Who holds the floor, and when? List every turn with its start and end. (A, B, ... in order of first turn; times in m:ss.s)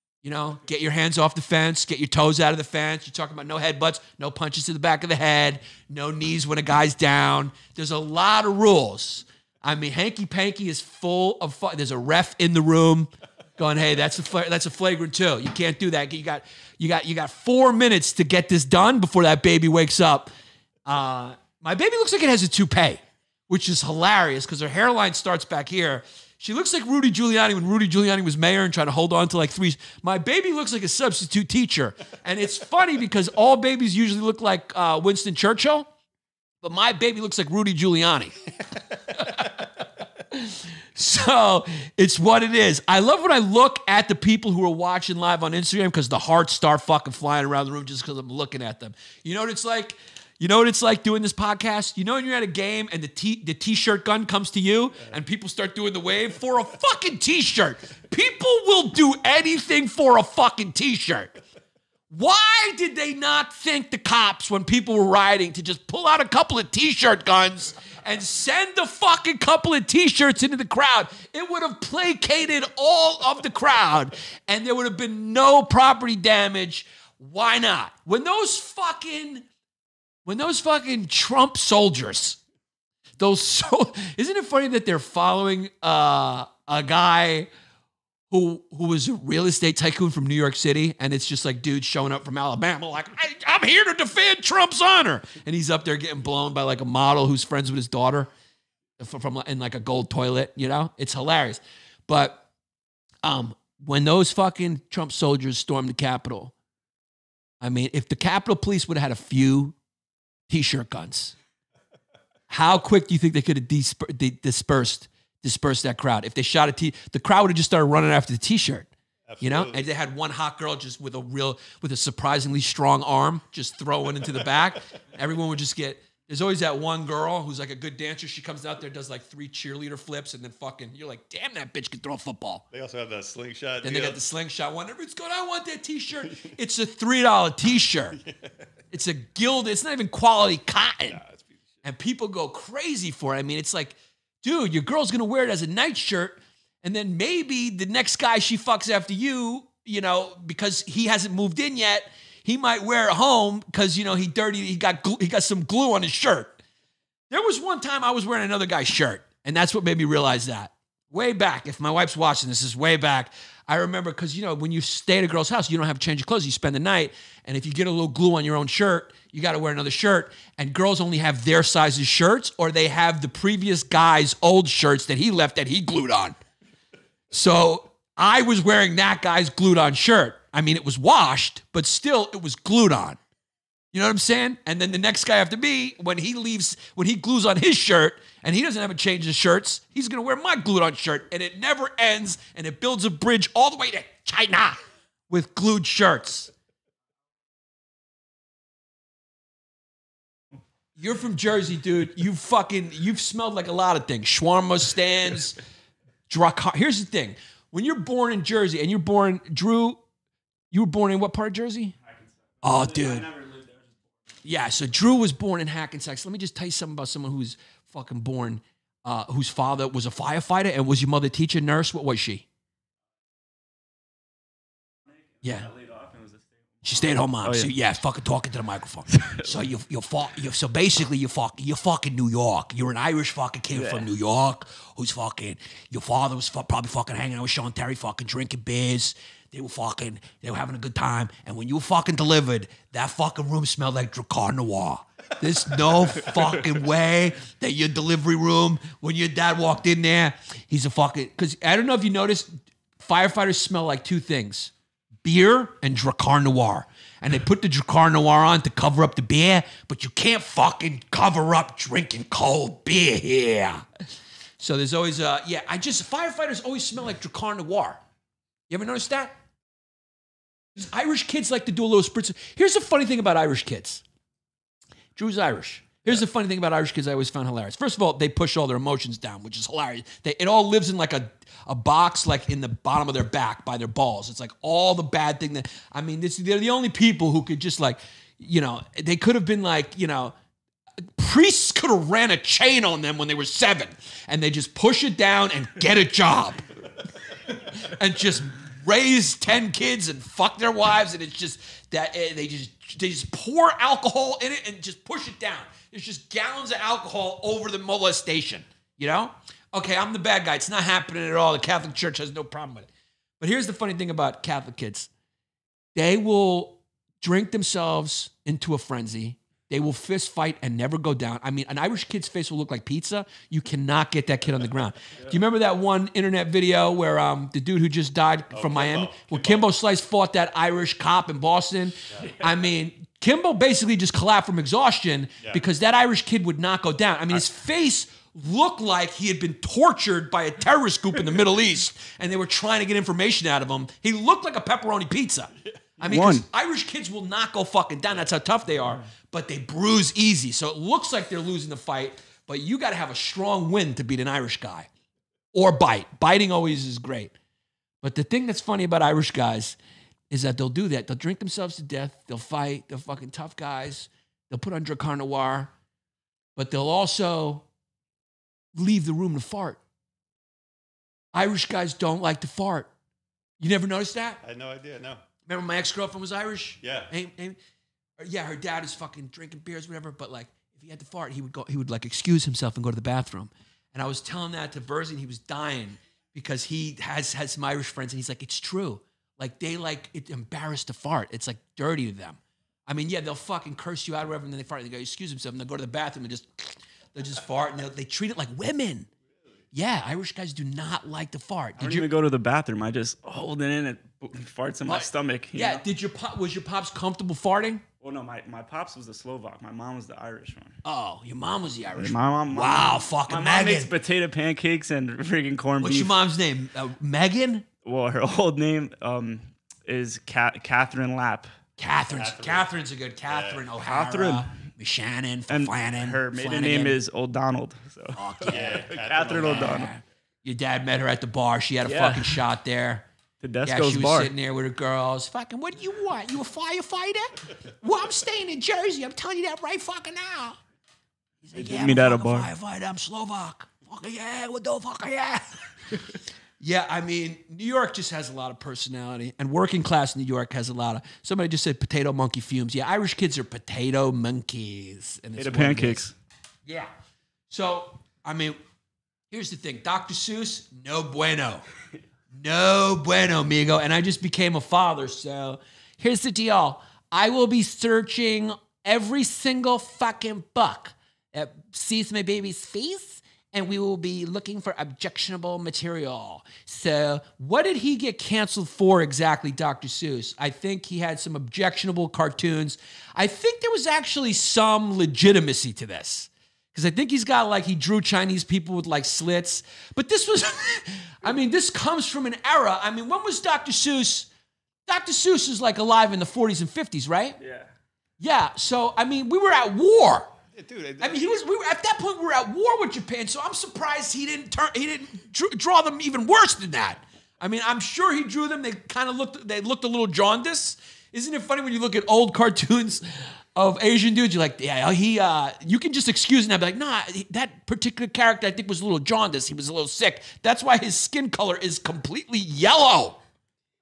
0:00.2-0:20.3 A
0:20.8-0:35.9 A
0:36.6-0:38.4 A
0:38.9-1:01.4 A
1:02.1-1:19.4 A
1:20.2-1:22.4 A
1:23.2-1:27.5 A
1:28.3-1:38.3 A
1:39.0-1:42.4 A
1:43.2-1:46.5 A
1:47.6-1:49.8 A
1:50.5-1:51.4 A
1:52.5-2:12.6 A
1:59.3-1:59.9 B
2:12.7-2:14.2 B
2:13.8-2:18.2 A
2:18.9-2:21.2 A
2:21.1-2:21.6 B
2:21.8-2:36.6 A
2:37.3-2:56.4 A
2:57.3-3:03.2 A
3:03.9-3:14.8 A
3:15.3-3:16.5 A
3:21.0-3:25.6 A
3:26.3-3:30.0 A
3:30.7-3:31.9 A
3:32.0-3:34.0 C
3:32.6-3:33.3 A
3:34.4-3:42.4 A
3:45.1-3:47.7 C
3:45.4-3:45.7 A
3:46.8-4:14.7 A
3:49.1-3:49.5 C
3:53.7-3:54.0 C
4:15.2-4:23.9 A
4:24.6-4:28.0 A
4:28.7-4:29.3 A
4:30.8-4:34.0 A
4:35.2-4:50.4 A
4:51.2-4:56.6 A
4:57.5-5:12.9 A
5:13.4-5:15.1 A
5:15.9-5:54.9 A
5:28.5-5:29.7 B
5:46.0-5:46.4 C
5:55.5-5:57.3 A
5:58.0-5:59.8 A
6:00.3-6:05.7 A
6:06.6-6:07.6 A
6:08.7-6:09.8 A
6:11.3-6:12.9 A
6:13.6-6:14.4 A
6:14.4-6:15.2 B
6:15.5-6:17.6 A
6:16.8-6:17.1 B
6:18.2-6:39.1 A
6:39.7-6:42.1 A
6:41.8-6:45.8 C
6:44.9-6:47.8 A
6:48.0-6:50.8 C
6:50.8-6:53.9 A
6:52.0-6:56.1 C
6:55.8-6:57.6 A
6:57.8-7:01.5 C
7:01.8-7:07.0 A
7:02.1-7:02.7 B
7:03.2-7:03.7 B
7:03.8-7:04.4 C
7:05.5-7:09.9 C
7:08.1-7:13.1 A
7:08.5-7:09.7 B
7:11.8-7:12.4 C
7:13.4-7:14.3 C
7:13.6-7:20.6 A
7:21.4-7:25.6 A
7:21.6-7:22.5 C
7:26.6-7:36.1 A
7:35.4-7:36.1 C
7:36.6-7:36.9 A
7:37.5-7:38.6 A
7:39.3-7:41.6 A
7:42.3-8:14.3 A
8:14.9-8:17.4 A
8:17.4-8:17.7 C
8:18.2-8:20.3 A
8:20.5-8:21.4 B
8:21.0-8:43.2 A